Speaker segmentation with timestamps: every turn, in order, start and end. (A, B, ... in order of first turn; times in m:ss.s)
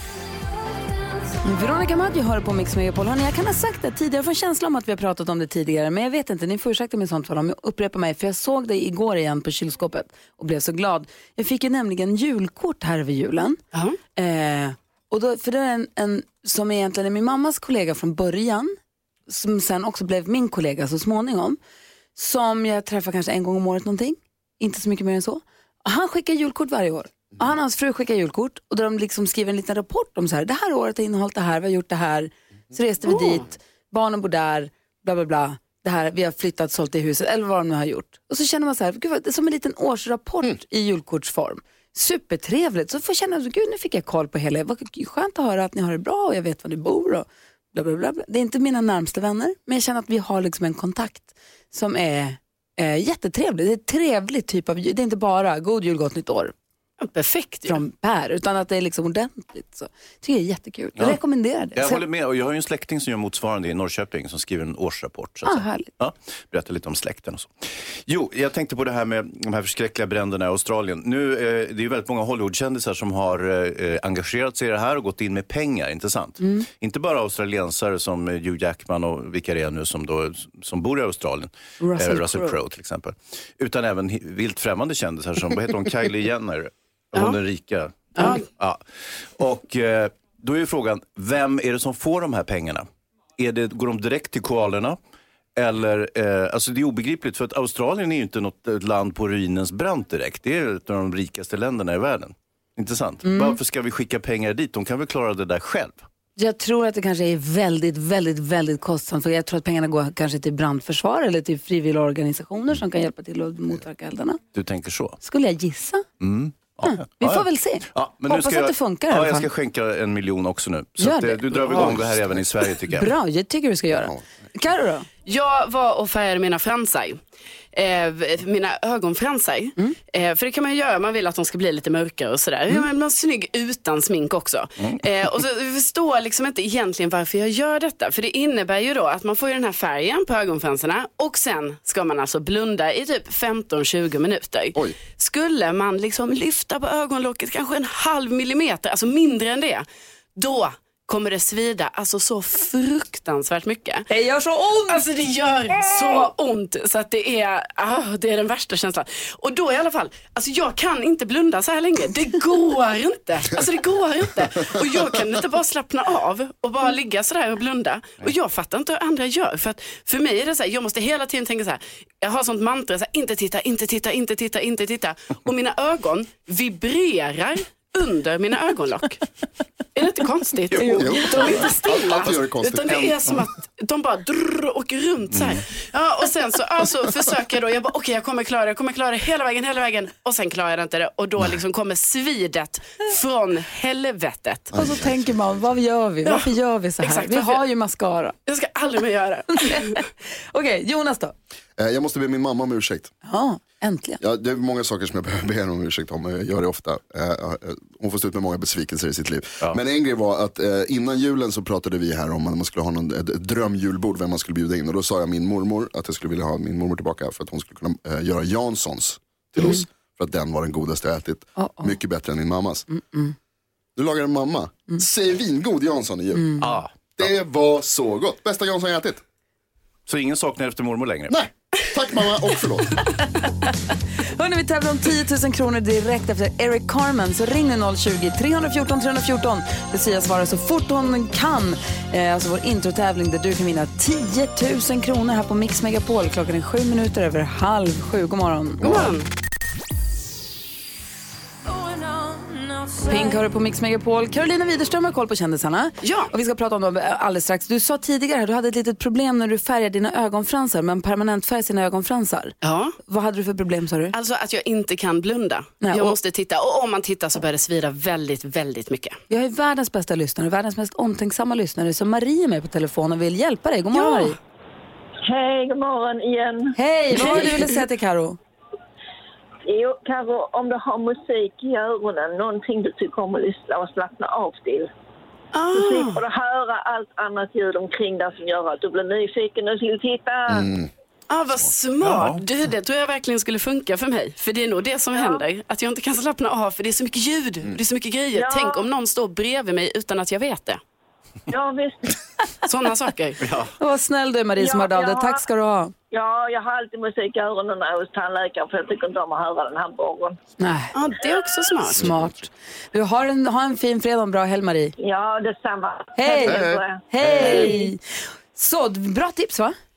0:01.4-0:13.6 A
0:14.2-0:18.7 A
0:19.3-0:21.6 A
0:22.2-0:56.5 A
0:33.0-0:33.4 B
0:57.0-0:57.8 B
0:57.6-1:02.0 A
1:01.7-1:32.8 C
1:05.4-1:05.9 A
1:16.4-1:16.6 A
1:21.8-1:22.6 A
1:28.2-1:28.4 B
1:33.4-1:35.0 C
1:35.6-1:46.0 C
1:43.2-1:43.6 A
1:46.4-1:54.4 A
1:54.5-1:55.2 C
1:55.2-1:56.0 A
1:56.2-2:03.1 C
1:56.8-1:59.5 A
2:01.0-2:01.8 A
2:01.6-2:02.4 D
2:02.9-2:05.1 A
2:05.2-2:07.2 B
2:07.7-2:29.8 B
2:14.8-2:15.0 C
2:30.4-2:34.0 B
2:34.1-2:35.0 A
2:34.9-2:59.2 B
2:59.9-3:14.7 B
3:00.7-3:03.3 D
3:05.3-3:05.6 C
3:14.7-3:15.5 D
3:14.7-3:18.3 A
3:17.0-3:17.6 B
3:18.5-3:20.0 B
3:19.5-3:20.0 A
3:20.5-3:21.3 A
3:21.8-3:23.1 D
3:23.2-3:24.2 A
3:24.2-3:42.9 D
3:41.6-3:42.0 A
3:42.9-3:43.3 A
3:44.0-3:46.6 D
3:46.3-3:46.7 A
3:46.6-3:47.2 C
3:47.2-3:49.2 D
3:50.1-3:51.3 C
3:51.3-3:53.0 D
3:54.4-4:08.8 A
4:08.8-4:09.2 D
4:08.8-4:09.3 B
4:13.0-4:22.5 A
4:16.0-4:16.3 B
4:22.6-4:23.0 B
4:23.1-4:24.1 A
4:24.1-4:29.2 B
4:25.8-4:26.2 A
4:29.3-4:34.4 A
4:33.9-4:34.4 B
4:35.2-4:37.7 E
4:36.7-4:38.4 A
4:39.6-4:44.9 E
4:45.5-4:46.2 B
4:45.7-4:50.7 E
4:50.5-4:50.9 D
4:51.3-5:00.8 B
4:52.0-4:52.4 C
4:55.1-4:55.4 E
4:58.3-4:58.9 E
5:01.5-5:02.1 E
5:02.7-5:03.4 B
5:03.4-5:03.7 C
5:03.8-5:05.9 A
5:04.6-5:05.4 E
5:06.1-5:10.4 E
5:10.6-5:10.9 A
5:10.9-5:12.0 B
5:12.0-5:14.9 A
5:12.0-5:12.3 D
5:15.0-5:17.9 E
5:16.2-5:19.7 A
5:16.4-5:16.8 D